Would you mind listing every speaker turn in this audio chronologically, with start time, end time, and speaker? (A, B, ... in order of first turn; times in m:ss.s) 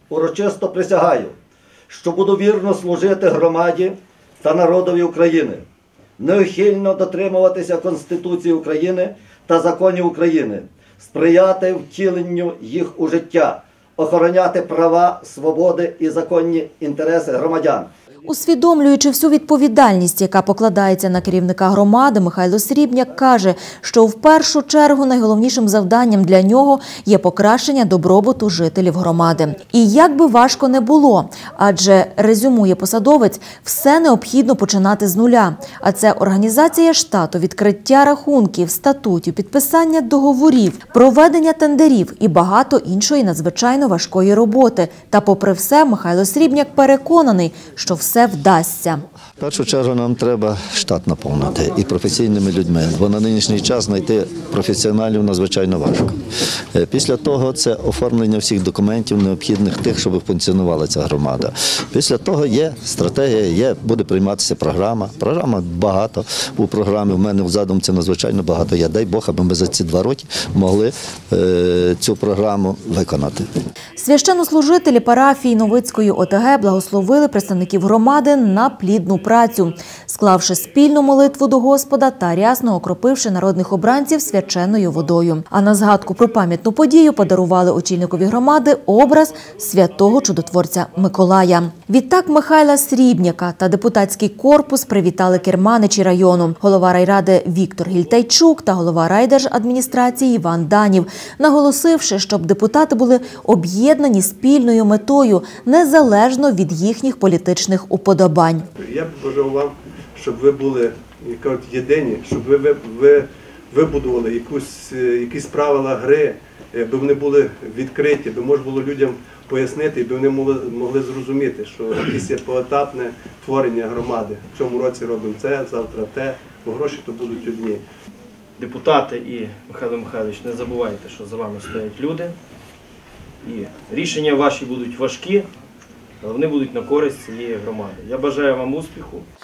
0:00.1-0:01.3 A
0:01.9-0:05.6 A
0:06.2-0:17.9 A
0:18.3-0:49.0 B
0:49.4-0:56.2 C
0:56.7-1:13.5 C
1:14.0-1:48.7 B
1:48.8-2:07.8 D
2:08.6-2:12.4 E
2:13.4-2:15.5 E
2:16.2-2:19.3 E